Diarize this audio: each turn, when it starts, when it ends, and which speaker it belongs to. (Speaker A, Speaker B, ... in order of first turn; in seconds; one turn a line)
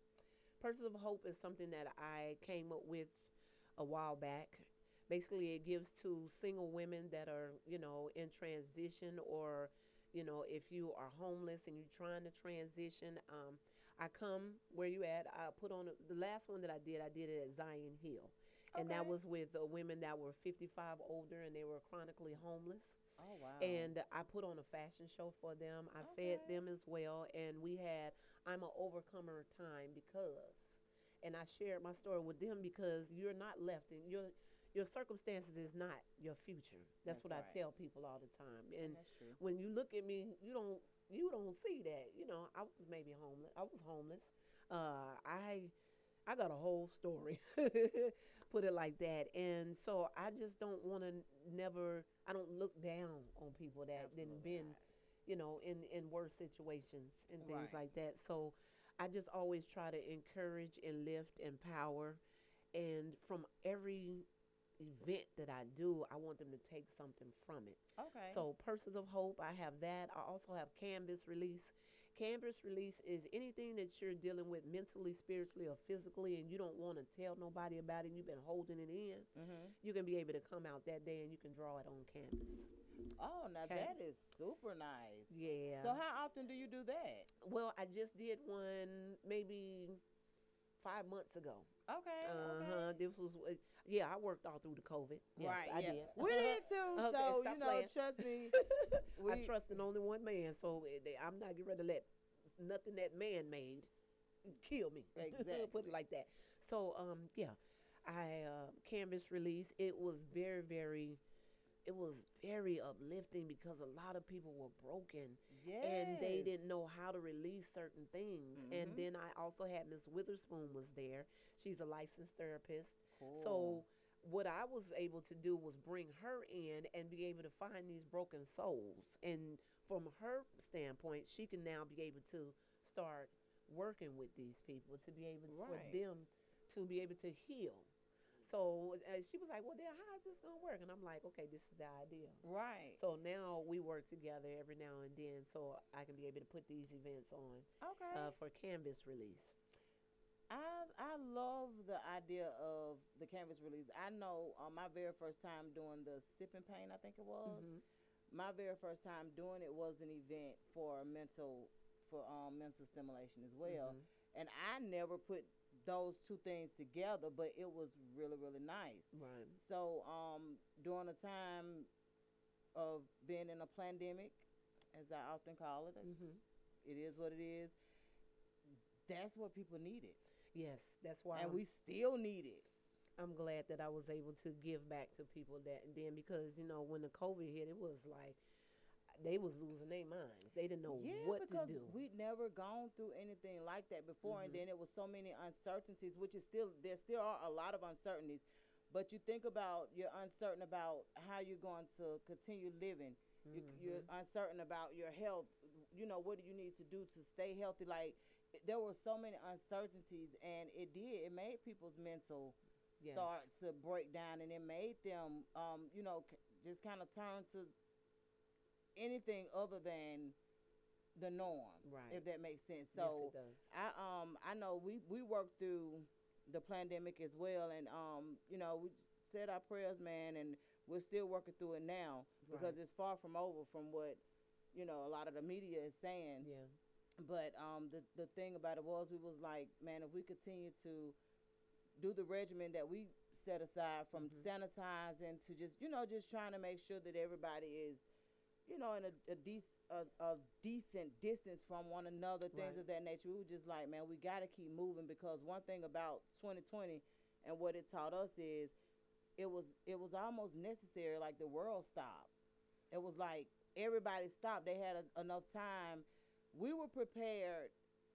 Speaker A: 0.6-23.0
Speaker B: 18.7-19.1
Speaker B: 23.2-23.9
Speaker A: 23.6-45.7
Speaker B: 26.0-26.6
Speaker B: 37.1-37.6
Speaker B: 38.8-39.4
Speaker A: 46.3-62.2
Speaker B: 54.0-54.8
Speaker B: 57.4-57.8
Speaker A: 62.7-64.3
Speaker A: 64.8-79.3
Speaker B: 68.0-68.5
Speaker B: 79.4-79.7
Speaker A: 79.8-82.7
Speaker B: 83.2-87.3
Speaker A: 83.6-83.9
Speaker A: 85.3-86.0
Speaker A: 87.4-90.0
Speaker A: 90.8-91.7
Speaker B: 91.9-92.9
Speaker A: 92.2-103.9
Speaker B: 95.4-98.6
Speaker B: 99.2-99.5
Speaker A: 104.5-111.2
Speaker B: 105.2-105.9
Speaker A: 111.8-137.9
Speaker B: 115.5-116.5
Speaker B: 118.6-119.1
Speaker B: 123.2-123.8
Speaker B: 135.5-136.0
Speaker A: 138.4-142.4
Speaker B: 142.4-143.0
Speaker A: 143.0-149.6
Speaker B: 147.8-148.3
Speaker B: 150.5-157.7
Speaker A: 157.5-157.8
Speaker B: 158.3-171.9
Speaker A: 163.7-164.0
Speaker A: 169.1-169.6
Speaker B: 172.8-177.8
Speaker A: 176.0-176.4
Speaker B: 179.1-180.2
Speaker A: 180.5-181.6
Speaker B: 181.3-182.7
Speaker A: 183.2-188.4
Speaker A: 189.2-192.0
Speaker B: 190.9-217.7
Speaker A: 194.2-194.6
Speaker A: 203.5-204.1
Speaker A: 213.0-213.5
Speaker B: 219.0-220.4
Speaker B: 221.2-234.2
Speaker A: 221.8-222.2
Speaker A: 222.9-223.6
Speaker A: 232.4-232.8
Speaker B: 234.7-236.5
Speaker A: 236.4-236.7
Speaker B: 237.2-241.2
Speaker B: 242.0-248.0
Speaker A: 244.2-244.5
Speaker B: 248.7-258.7
Speaker A: 252.5-252.8
Speaker B: 259.4-262.3
Speaker B: 262.9-267.7